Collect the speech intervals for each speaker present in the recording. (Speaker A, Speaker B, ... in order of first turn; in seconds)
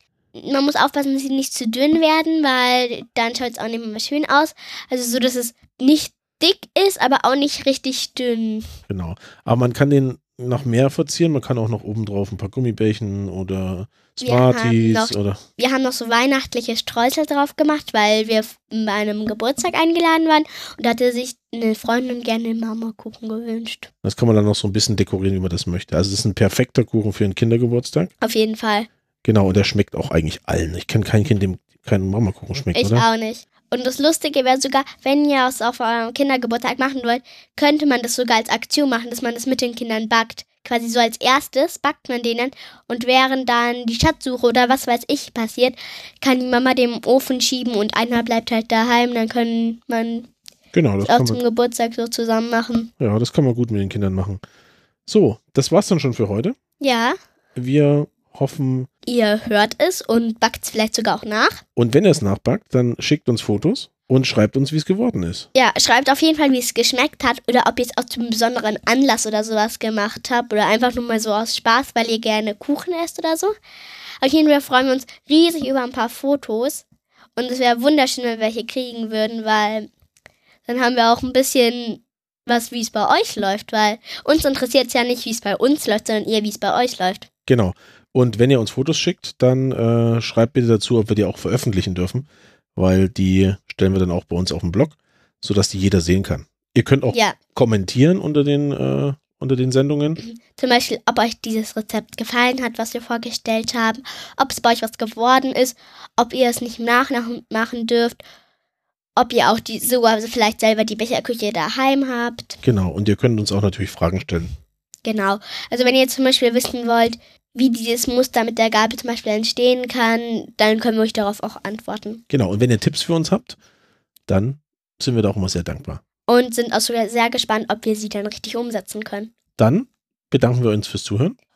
Speaker A: 0.3-8.7, 14.2-23.9, 28.2-28.9, 32.7-50.3, 51.0-52.9, 56.8-57.2, 59.1-61.6, 65.5-73.5, 74.2-76.8, 77.4-79.9, 80.7-87.3, 97.1-97.4, 100.2-108.2, 109.2-112.6, 115.0-122.2, 126.3-129.3
Speaker B: 8.9-15.4, 24.0-28.1, 29.2-33.1, 50.7-51.4, 53.0-54.4, 55.1-56.6, 57.6-58.9, 61.8-65.5, 87.5-100.2, 112.6-114.5, 122.3-123.6, 124.3-126.0, 129.6-131.4